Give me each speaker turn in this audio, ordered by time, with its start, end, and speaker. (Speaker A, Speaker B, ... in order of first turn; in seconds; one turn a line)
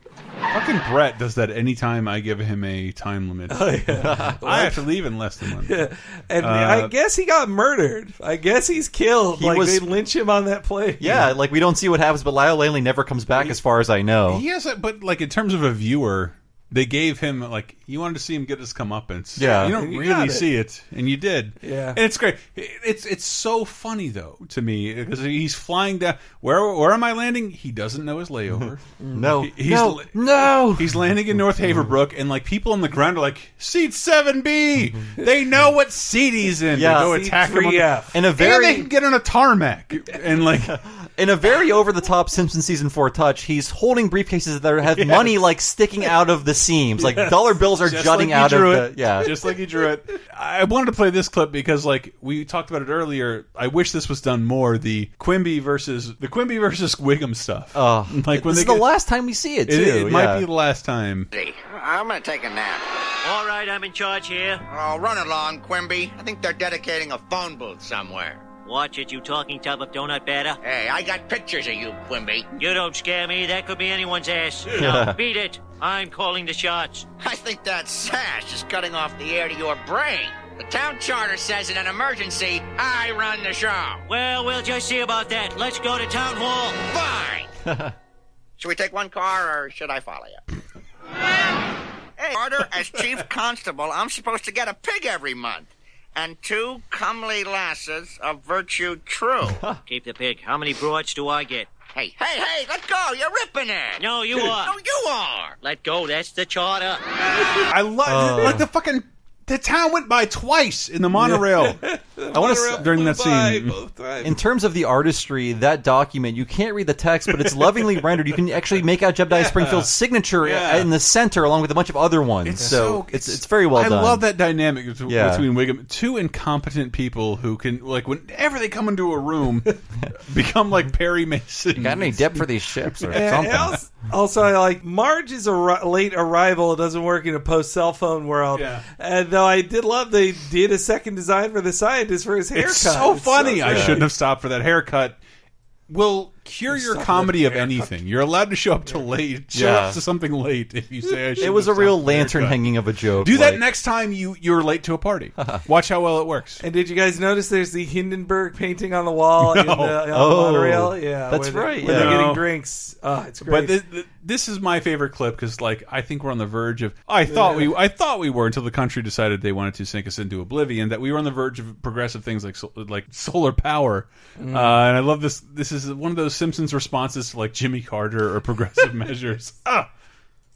Speaker A: 0.5-3.7
Speaker B: 3.5-4.9
Speaker C: 4.0-4.4
Speaker A: 4.4-5.8
Speaker B: 5.6-11.3
Speaker A: 6.4-6.9
Speaker C: 9.3-9.9
Speaker C: 11.0-14.4
Speaker A: 14.3-40.7
Speaker C: 19.4-19.8
Speaker B: 19.4-20.5
Speaker B: 21.6-22.0
Speaker C: 29.1-31.7
Speaker C: 36.7-37.3
Speaker B: 36.9-38.2
Speaker C: 38.1-38.9
Speaker C: 40.6-49.3
Speaker A: 47.7-58.9
Speaker C: 57.7-60.5
Speaker A: 59.7-61.3
Speaker D: 61.3-62.8
Speaker E: 63.2-64.6
Speaker D: 64.7-68.4
Speaker E: 68.7-70.6
Speaker D: 70.6-72.5
Speaker E: 72.6-77.1
Speaker C: 74.7-75.2
Speaker D: 77.2-84.0
Speaker E: 84.1-86.8
Speaker D: 86.8-87.5
Speaker C: 87.7-87.9
Speaker D: 88.6-90.4
Speaker D: 92.2-99.6
Speaker E: 99.9-101.7
Speaker D: 101.9-105.6
Speaker E: 104.0-104.7
Speaker E: 105.6-107.0
Speaker A: 107.7-111.8
Speaker C: 108.1-108.7
Speaker B: 111.2-114.4
Speaker C: 112.3-112.9
Speaker A: 112.8-113.8
Speaker C: 114.2-124.2
Speaker A: 119.3-120.9
Speaker A: 122.4-133.6
Speaker C: 125.1-125.5
Speaker C: 131.8-133.8
Speaker B: 133.1-144.1
Speaker A: 138.5-138.9
Speaker A: 142.6-145.2
Speaker C: 143.6-144.1
Speaker A: 145.9-152.7
Speaker B: 146.7-147.9
Speaker C: 149.5-150.0
Speaker C: 151.4-153.6
Speaker A: 153.2-156.6
Speaker C: 155.4-155.6
Speaker B: 156.6-163.8
Speaker A: 159.4-160.0
Speaker C: 160.1-162.3
Speaker A: 161.8-162.5
Speaker A: 163.5-179.7
Speaker B: 167.3-167.7
Speaker B: 174.4-174.8